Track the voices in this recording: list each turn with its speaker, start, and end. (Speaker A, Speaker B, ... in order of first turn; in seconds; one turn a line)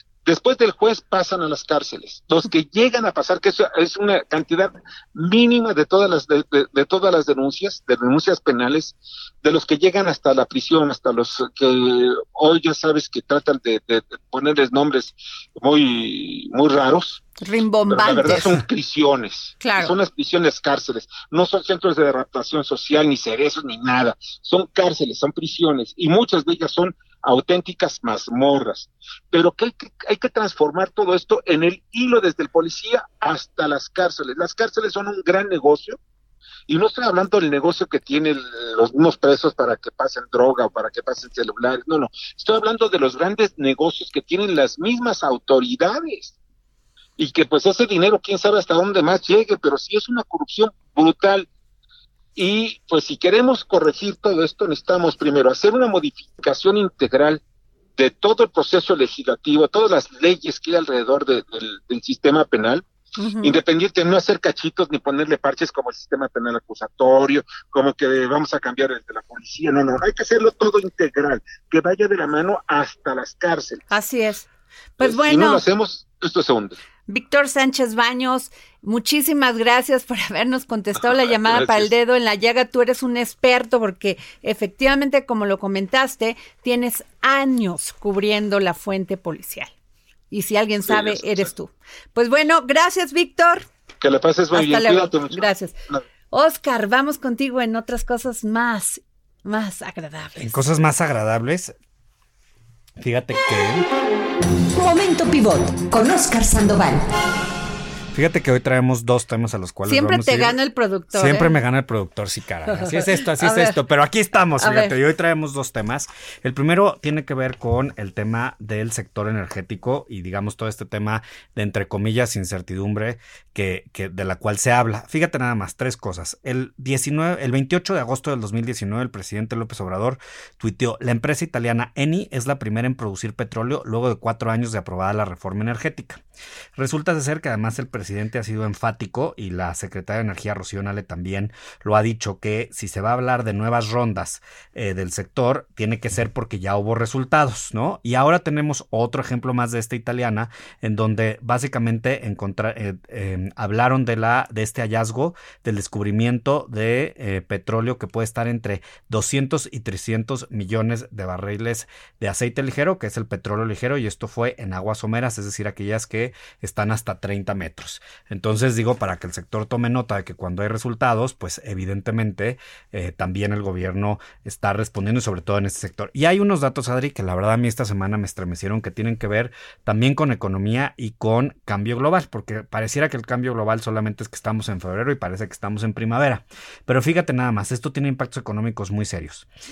Speaker A: 0.2-17.2
Speaker B: 17.4-18.5
Speaker A: 17.9-36.0
Speaker B: 19.6-19.9
Speaker A: 36.7-46.4
Speaker A: 47.2-51.5
Speaker A: 52.4-57.4
Speaker A: 58.0-62.9
Speaker B: 63.2-63.6
Speaker A: 63.4-73.8
Speaker B: 73.9-74.5
Speaker B: 75.0-75.6
Speaker A: 75.0-76.8
Speaker B: 77.1-89.7
Speaker A: 81.5-81.9
Speaker B: 90.3-93.7
Speaker A: 90.9-91.5
Speaker A: 94.0-96.0
Speaker B: 94.5-95.8
Speaker B: 96.3-100.5
Speaker C: 100.4-101.8
Speaker C: 103.0-103.9
Speaker D: 104.8-107.0
Speaker C: 108.1-110.6
Speaker B: 109.8-111.5
Speaker C: 111.1-136.2
Speaker B: 112.8-113.8
Speaker B: 114.6-114.9
Speaker C: 136.8-189.5